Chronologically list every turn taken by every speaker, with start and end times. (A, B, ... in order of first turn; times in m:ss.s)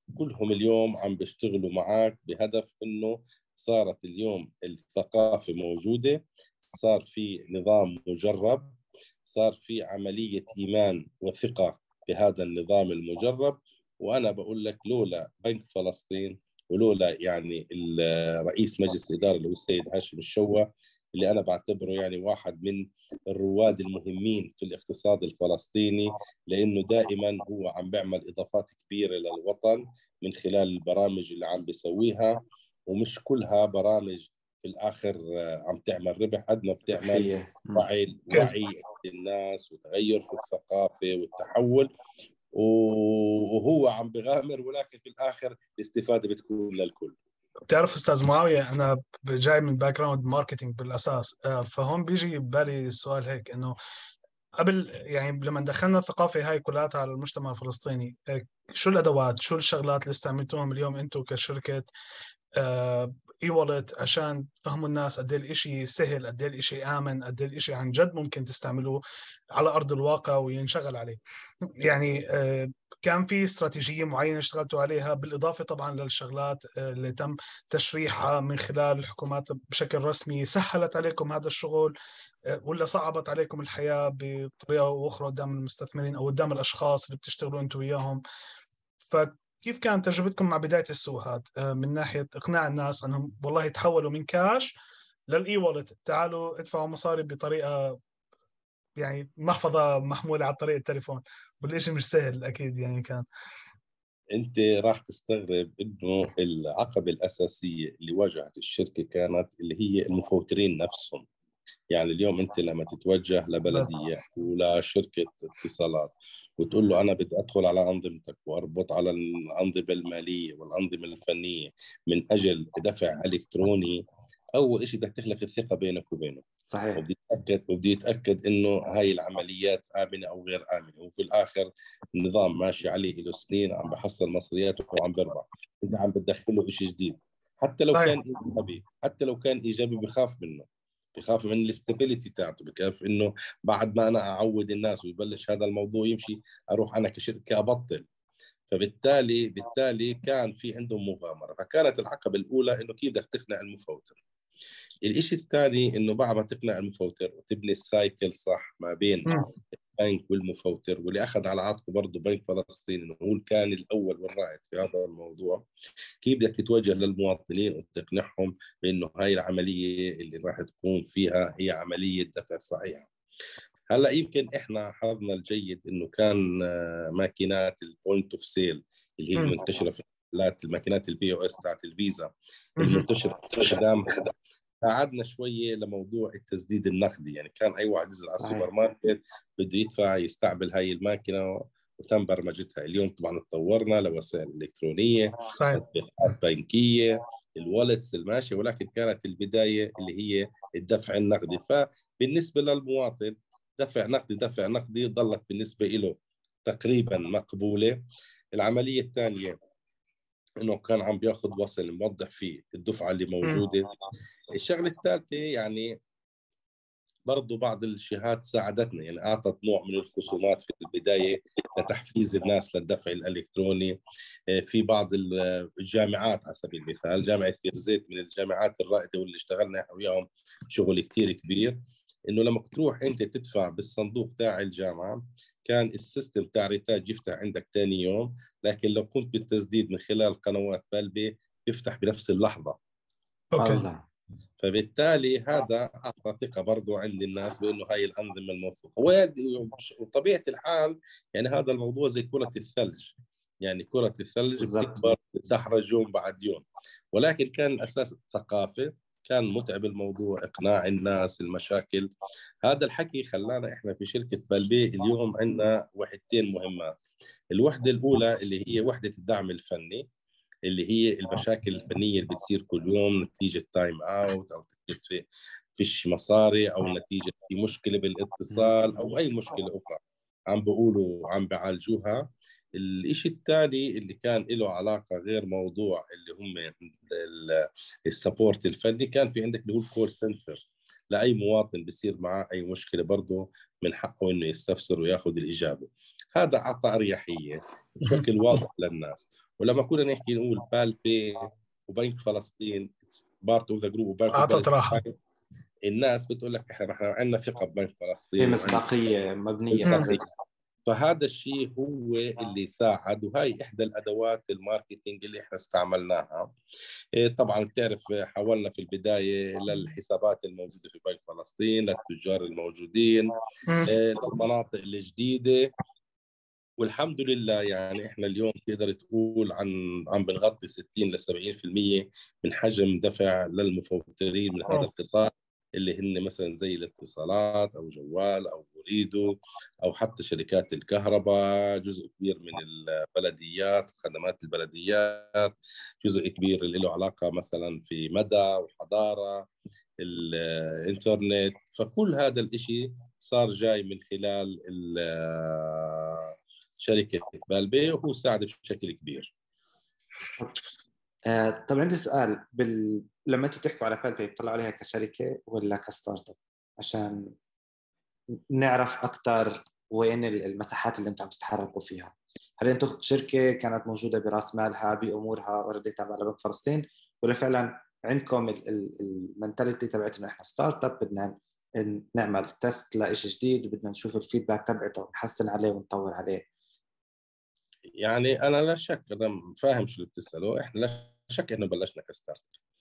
0:00.2-0:08.8 A
0:09.3-0:41.9 A
0:36.9-0:37.9 B
0:42.5-0:47.2 A
0:47.7-0:53.8 C
0:54.6-1:01.9 C
1:02.6-1:09.0 C
1:09.6-1:11.2 C
1:11.8-1:21.9 C
1:22.6-1:28.2 C
1:29.1-1:34.7 C
1:35.3-1:38.0 C
1:39.0-1:43.2 C
1:44.4-1:51.3 A
1:51.9-2:04.0 A
2:04.6-2:06.4 A
2:06.7-2:07.0 B
2:07.0-2:28.1 A
2:17.9-2:18.2 C
2:28.7-2:34.2 A
2:35.0-2:39.3 A
2:39.9-2:45.6 A
2:46.2-2:53.1 A
2:53.9-3:28.0 A
3:02.8-3:03.1 C
3:08.4-3:08.7 B
3:15.5-3:15.8 C
3:28.6-3:29.6 A
3:30.6-3:33.9 A
3:34.6-3:35.9 A
3:37.3-3:44.0 A
3:44.5-4:02.8 A
4:03.5-4:03.9 C
4:03.6-4:04.0 B
4:04.6-4:22.1 A
4:14.6-4:15.2 B
4:22.6-4:26.9 A
4:27.5-4:30.1 A
4:30.7-5:05.2 A
5:04.3-5:05.0 C
5:05.9-5:08.8 A
5:08.4-5:10.3 B
5:09.7-5:10.2 A
5:09.9-5:10.1 C
5:10.9-5:16.5 A
5:17.2-5:23.3 A
5:23.7-5:23.9 C
5:23.9-5:25.7 A
5:26.8-5:49.5 A
5:50.0-5:59.3 A
6:01.3-6:07.3 B
6:08.5-6:26.4 B
6:28.0-6:32.5 A